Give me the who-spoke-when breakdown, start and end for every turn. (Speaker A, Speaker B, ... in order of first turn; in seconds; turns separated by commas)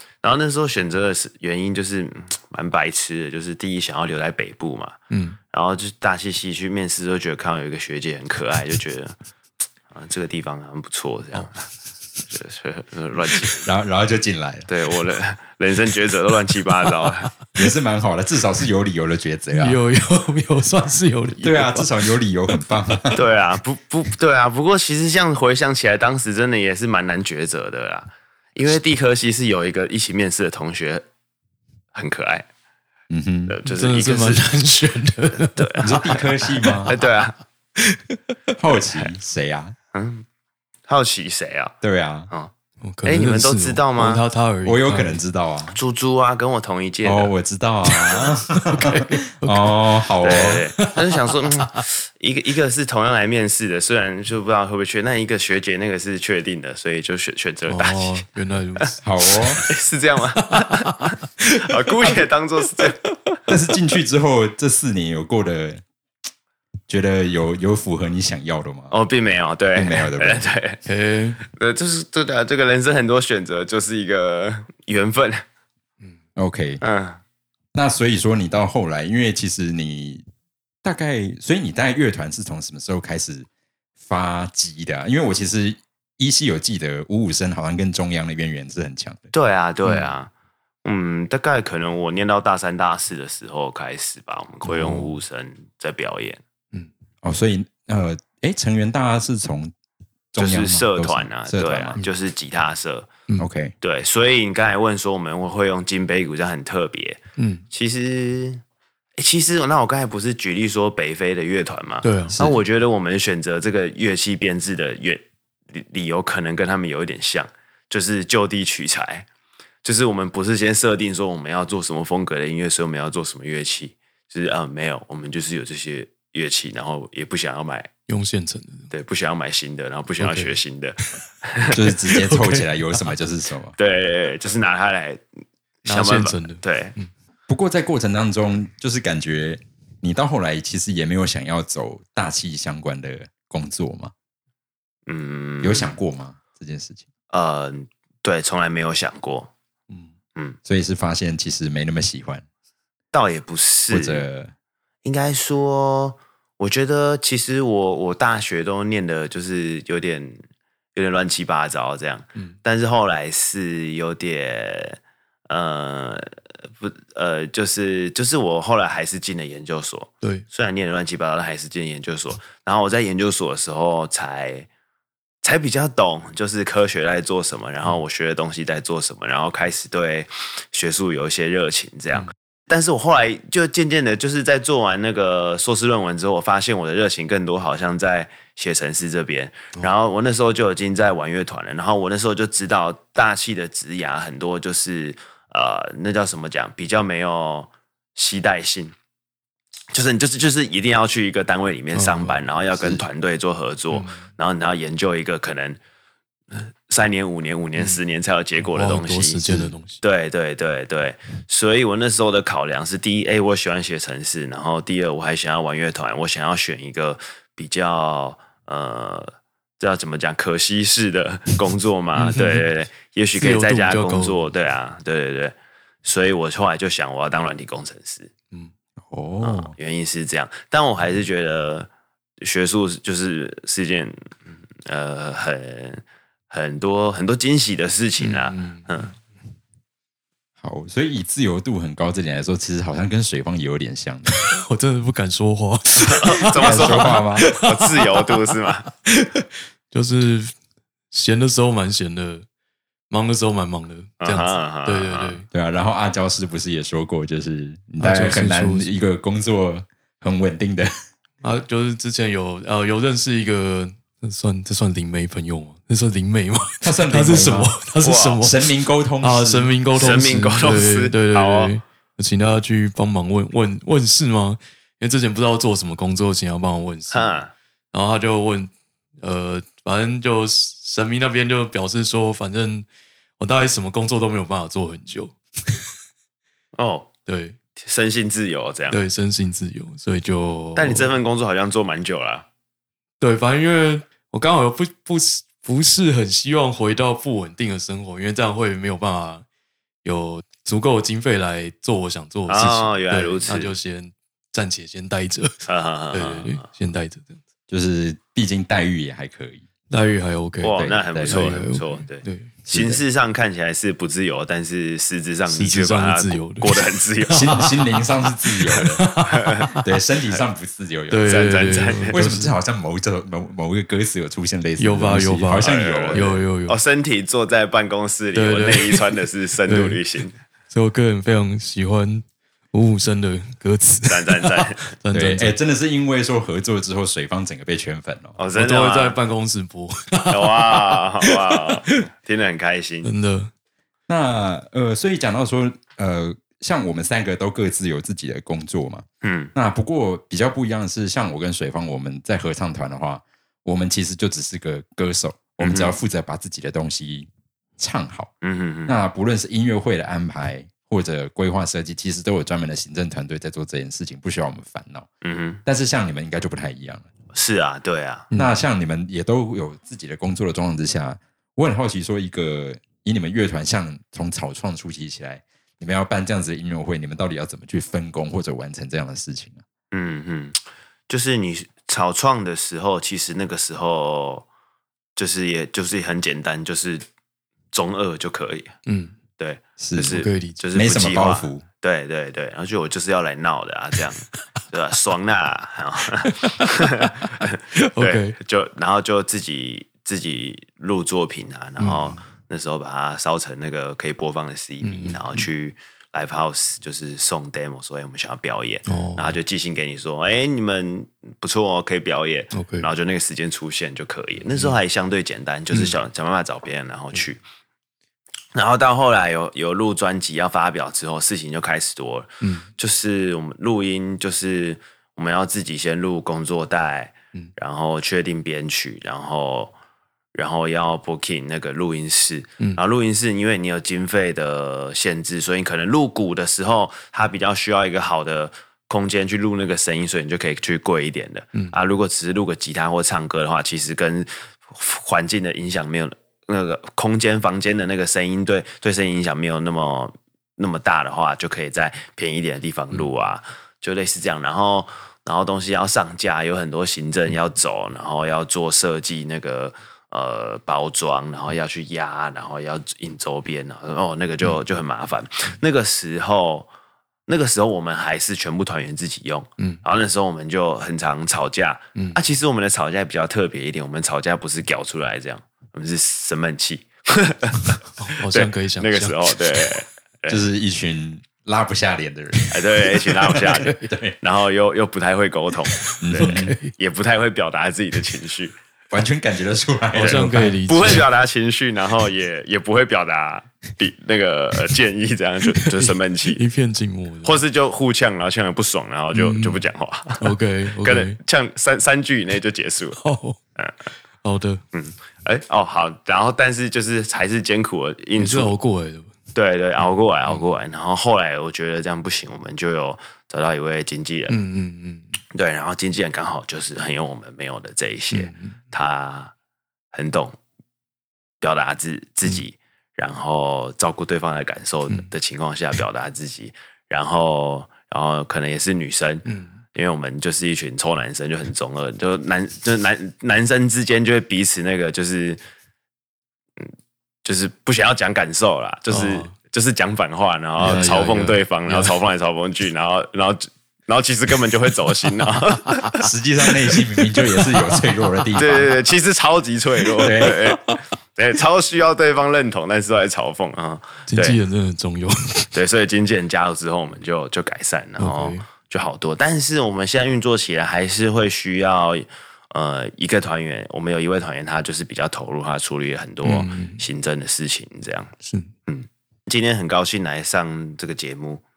Speaker A: 0.2-5.0, Speaker B: 5.1-5.4, Speaker A: 5.5-9.2, Speaker A: 9.9-11.7, Speaker A: 12.3-13.7, Speaker C: 13.6-14.7, Speaker A: 14.7-17.3, Speaker C: 17.6-19.8, Speaker B: 19.5-21.9, Speaker C: 21.4-23.2, Speaker A: 23.1-31.0, Speaker A: 31.9-32.5, Speaker C: 33.1-33.6, Speaker A: 33.5-34.5, Speaker B: 33.6-37.0, Speaker A: 35.5-36.2, Speaker C: 35.8-37.0, Speaker A: 36.9-37.4, Speaker B: 37.8-38.2, Speaker C: 38.6-39.8, Speaker A: 39.9-40.2, Speaker A: 40.9-41.8, Speaker C: 41.8-42.3, Speaker B: 42.8-45.2, Speaker A: 43.0-44.2, Speaker C: 44.6-45.8, Speaker A: 45.7-47.3, Speaker C: 47.0-50.7, Speaker B: 48.0-50.1, Speaker A: 50.2-58.2, Speaker B: 57.7-59.0, Speaker C: 59.0-59.6, Speaker A: 59.5-63.1, Speaker B: 60.5-62.2, Speaker C: 63.5-65.8, Speaker C: 66.9-68.9, Speaker A: 68.9-70.8, Speaker C: 69.7-70.5, Speaker B: 70.9-71.4, Speaker A: 71.4-75.4, Speaker C: 76.4-76.8, Speaker A: 76.8-77.2, Speaker C: 77.7-80.2, Speaker C: 80.8-83.5, Speaker C: 84.0-89.3, Speaker A: 89.3-90.3, Speaker B: 89.8-90.1, Speaker A: 90.8-96.4, Speaker B: 94.7-95.2, Speaker C: 97.2-99.7, Speaker C: 100.3-102.0, Speaker A: 100.4-103.1, Speaker C: 103.4-103.8, Speaker A: 103.8-107.2, Speaker B: 107.4-107.6, Speaker A: 107.7-108.6, Speaker A: 109.2-119.3, Speaker B: 112.0-112.4, Speaker C: 112.3-112.6, Speaker A: 119.8-127.9, Speaker B: 128.1-128.9, Speaker A: 128.9-131.8, Speaker B: 130.2-130.6, Speaker C: 131.7-133.8, Speaker B: 132.2-132.7, Speaker A: 133.8-135.2, Speaker A: 135.8-136.9, Speaker B: 135.9-137.1, Speaker C: 137.5-144.1, Speaker A: 145.1-146.0, Speaker C: 145.6-147.0, Speaker A: 147.3-149.5, Speaker C: 150.7-152.4, Speaker A: 153.1-154.2, Speaker C: 153.9-154.5, Speaker A: 155.0-160.4, Speaker A: 160.9-174.7, Speaker A: 175.4-198.9, Speaker A: 199.9-205.8, Speaker B: 201.9-202.4, Speaker B: 203.9-204.3, Speaker A: 206.5-228.3, Speaker B: 207.8-208.0, Speaker B: 208.6-210.0, Speaker B: 222.2-222.7, Speaker B: 223.4-224.5, Speaker C: 229.1-229.7, Speaker A: 229.4-231.9, Speaker A: 232.4-234.3, Speaker A: 234.8-239.1, Speaker B: 238.2-239.0, Speaker C: 240.6-244.4, Speaker B: 244.3-248.4, Speaker A: 246.0-248.9, Speaker C: 246.5-247.5, Speaker B: 249.1-250.5, Speaker B: 251.1-252.5, Speaker B: 253.1-255.5, Speaker A: 254.2-255.4, Speaker C: 255.5-260.9, Speaker B: 258.0-258.9, Speaker B: 261.4-277.4, Speaker C: 266.8-267.8, Speaker A: 268.0-268.4, Speaker C: 268.4-269.7, Speaker A: 269.9-271.7, Speaker A: 277.1-277.5, Speaker B: 277.9-278.7, Speaker B: 279.2-282.9, Speaker B: 283.4-285.8, Speaker A: 286.8-287.1, Speaker B: 287.3-287.6, Speaker A: 287.8-289.0, Speaker B: 288.9-291.1, Speaker A: 290.8-292.5, Speaker B: 293.2-299.4, Speaker B: 300.0-307.4, Speaker A: 302.5-303.7, Speaker A: 305.7-306.6, Speaker C: 307.7-309.6, Speaker B: 309.9-313.0, Speaker A: 310.6-317.7, Speaker C: 310.7-311.6, Speaker B: 315.5-319.8, Speaker C: 317.3-319.0, Speaker A: 319.3-319.7, Speaker C: 319.8-321.3, Speaker B: 321.1-322.5, Speaker A: 321.2-322.2, Speaker C: 322.1-326.3, Speaker B: 324.8-326.8, Speaker A: 325.6-330.4, Speaker B: 328.3-330.0, Speaker B: 330.7-335.6, Speaker A: 334.1-334.8, Speaker C: 335.1-338.4, Speaker A: 338.4-339.2, Speaker B: 338.6-341.9, Speaker A: 340.3-343.1, Speaker B: 343.0-343.5, Speaker C: 344.1-358.3, Speaker A: 349.2-349.5, Speaker A: 355.6-355.9, Speaker A: 358.4-358.9, Speaker C: 358.9-365.1, Speaker A: 365.2-365.6, Speaker C: 365.6-367.1, Speaker A: 367.3-368.3, Speaker B: 368.3-368.6, Speaker C: 368.3-379.6, Speaker A: 379.9-384.5, Speaker A: 385.2-387.1, Speaker A: 387.7-388.7, Speaker B: 388.9-389.1, Speaker A: 389.4-417.4, Speaker C: 389.8-390.2, Speaker B: 390.0-390.6, Speaker C: 390.7-391.7, Speaker B: 396.2-397.3, Speaker B: 397.9-398.4, Speaker B: 401.8-402.2, Speaker B: 404.8-405.5, Speaker B: 408.9-409.4, Speaker B: 412.5-412.9, Speaker B: 415.7-416.0, Speaker A: 418.5-429.7, Speaker B: 422.4-422.7, Speaker A: 430.3-466.7, Speaker A: 467.3-480.4, Speaker B: 471.9-472.2, Speaker B: 478.0-479.7, Speaker C: 480.3-484.2, Speaker A: 482.5-488.6, Speaker B: 483.4-483.9, Speaker C: 486.0-486.6, Speaker B: 486.2-486.7, Speaker C: 488.9-490.6, Speaker B: 489.9-491.1, Speaker A: 490.1-496.4, Speaker B: 495.6-497.4, Speaker A: 497.2-503.0, Speaker B: 499.1-499.6, Speaker B: 500.2-501.2, Speaker B: 503.0-503.4, Speaker B: 504.2-504.6, Speaker A: 504.7-508.5, Speaker B: 508.2-509.1, Speaker A: 509.4-514.4, Speaker B: 514.3-515.1, Speaker A: 515.3-519.3, Speaker B: 518.1-518.6, Speaker A: 519.9-520.4, Speaker A: 521.4-535.4, Speaker B: 529.3-529.5, Speaker A: 537.2-546.1, Speaker B: 538.9-539.3, Speaker B: 540.6-542.0, Speaker C: 546.0-548.8, Speaker A: 548.4-554.4, Speaker B: 550.0-550.8, Speaker C: 550.0-550.4, Speaker B: 554.1-555.5, Speaker A: 555.5-568.1, Speaker B: 558.0-558.4, Speaker B: 566.2-566.9, Speaker B: 568.2-568.5, Speaker A: 568.7-571.4